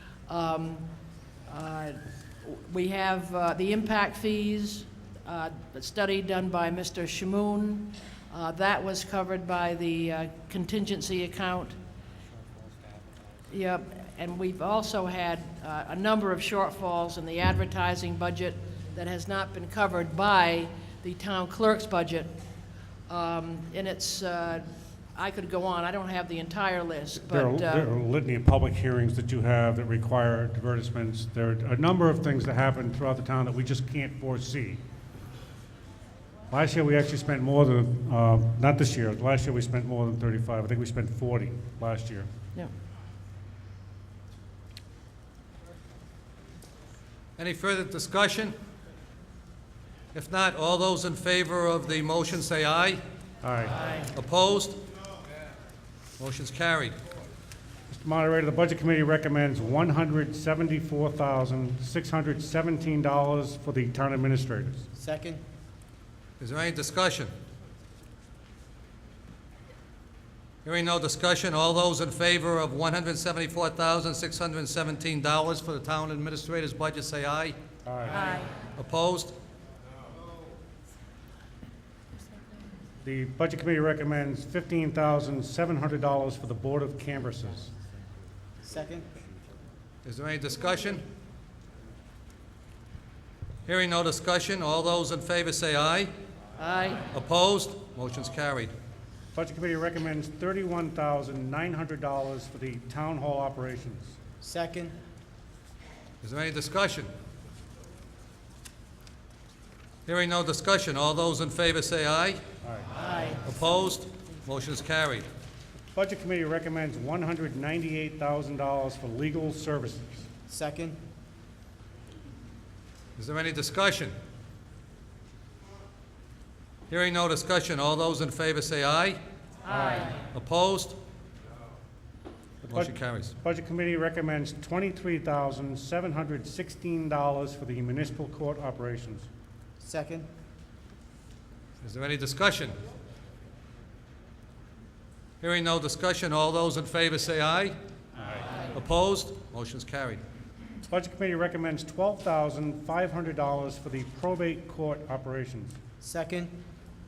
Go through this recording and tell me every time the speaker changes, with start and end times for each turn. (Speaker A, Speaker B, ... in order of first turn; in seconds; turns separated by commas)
Speaker A: 0.3-0.9, Speaker A: 1.5-11.8, Speaker A: 13.5-22.3, Speaker A: 23.1-27.9, Speaker B: 27.2-34.8, Speaker B: 36.5-42.3, Speaker C: 47.4-48.5, Speaker C: 50.1-53.0, Speaker B: 53.4-53.8, Speaker C: 54.1-54.8, Speaker C: 56.2-57.0, Speaker B: 57.9-64.9, Speaker D: 65.0-65.4, Speaker C: 66.4-67.3, Speaker C: 70.6-77.6, Speaker B: 77.9-78.4, Speaker C: 78.2-79.3, Speaker B: 83.0-87.7, Speaker D: 88.7-89.1, Speaker C: 90.0-91.0, Speaker C: 93.7-96.1, Speaker A: 96.6-97.0, Speaker C: 97.1-98.7, Speaker B: 99.3-104.2, Speaker D: 104.4-104.9, Speaker C: 106.2-107.1, Speaker C: 110.1-112.4, Speaker B: 112.6-113.0, Speaker C: 113.4-115.3, Speaker B: 115.9-120.3, Speaker D: 120.5-121.0, Speaker C: 123.2-124.1, Speaker C: 126.9-129.2, Speaker A: 129.7-130.0, Speaker C: 130.2-131.0, Speaker B: 132.6-139.3, Speaker C: 132.7-133.3, Speaker D: 139.8-140.3, Speaker C: 141.8-142.8, Speaker C: 145.4-147.8, Speaker C: 148.7-150.2, Speaker B: 150.9-155.8, Speaker D: 156.0-156.5